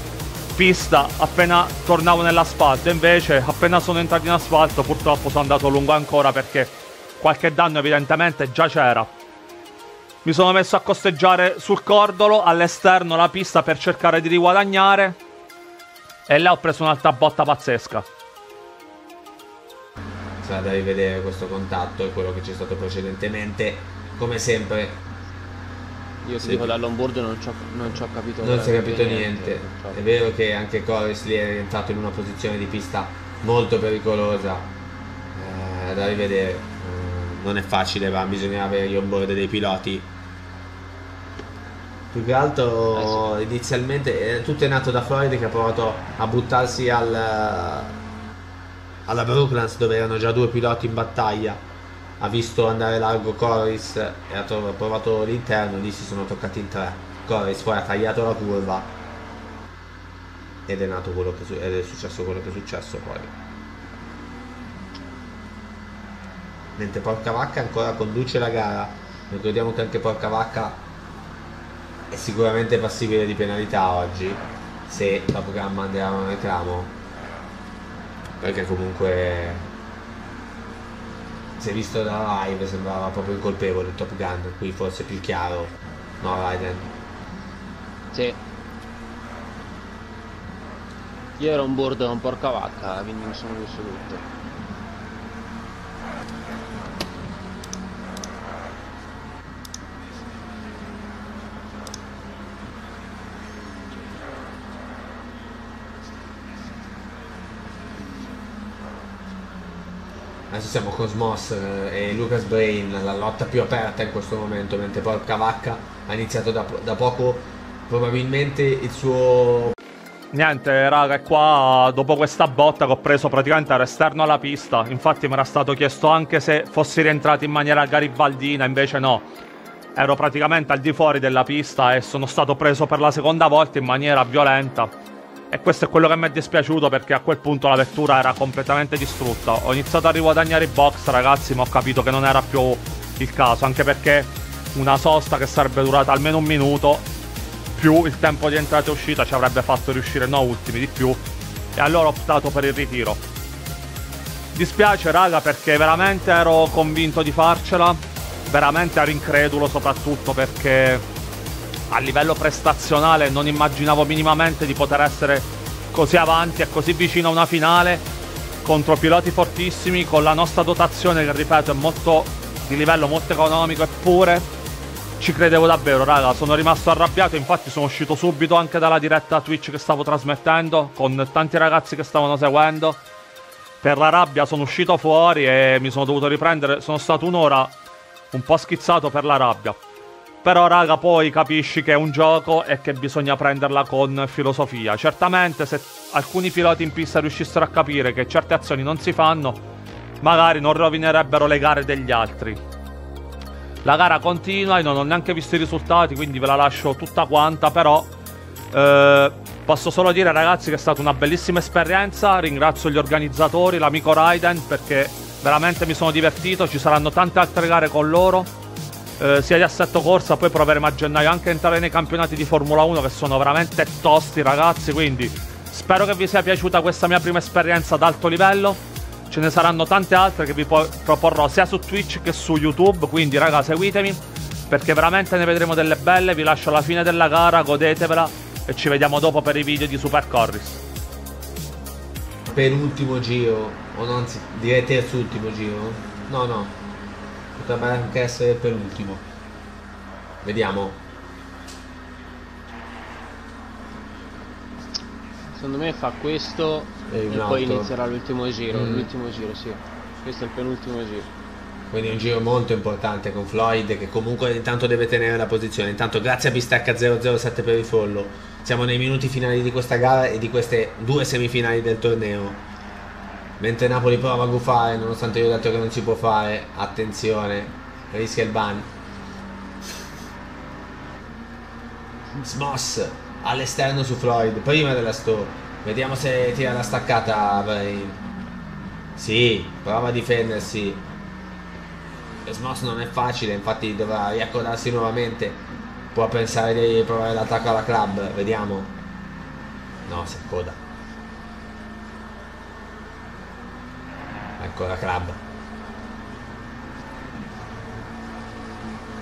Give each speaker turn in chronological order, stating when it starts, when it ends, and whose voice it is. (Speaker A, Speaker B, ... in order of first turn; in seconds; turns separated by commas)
Speaker A: 0.5-9.1, Speaker A: 10.2-15.2, Speaker A: 16.3-18.1, Speaker B: 20.4-25.0, Speaker C: 26.2-30.0, Speaker B: 26.4-26.8, Speaker B: 28.4-34.7, Speaker B: 35.3-40.1, Speaker B: 42.1-48.0, Speaker C: 42.9-43.3, Speaker B: 49.1-51.6, Speaker B: 52.2-58.9, Speaker B: 60.7-63.3, Speaker B: 66.8-70.8, Speaker B: 72.1-77.0, Speaker B: 78.4-79.7, Speaker B: 81.6-86.9, Speaker C: 88.1-88.4, Speaker C: 91.4-94.3, Speaker B: 110.5-119.8, Speaker A: 120.3-129.3, Speaker A: 129.9-134.9, Speaker A: 135.5-147.0, Speaker A: 147.7-151.2, Speaker A: 151.7-153.2, Speaker A: 154.5-161.1, Speaker A: 161.9-168.1, Speaker A: 168.6-174.5, Speaker A: 175.2-183.0, Speaker A: 183.8-187.7, Speaker A: 188.3-189.8, Speaker A: 190.4-199.6, Speaker A: 200.2-202.6, Speaker A: 203.8-208.1, Speaker A: 208.7-218.5, Speaker A: 219.2-240.8, Speaker B: 242.5-246.8, Speaker B: 247.6-249.3, Speaker B: 250.4-251.0, Speaker C: 255.5-261.3, Speaker B: 257.1-257.9, Speaker B: 258.7-259.1, Speaker B: 261.9-272.6, Speaker B: 273.6-278.9, Speaker B: 282.4-288.2, Speaker B: 289.1-291.1, Speaker B: 292.4-295.6, Speaker B: 296.1-298.9, Speaker B: 300.1-300.8, Speaker B: 304.6-305.4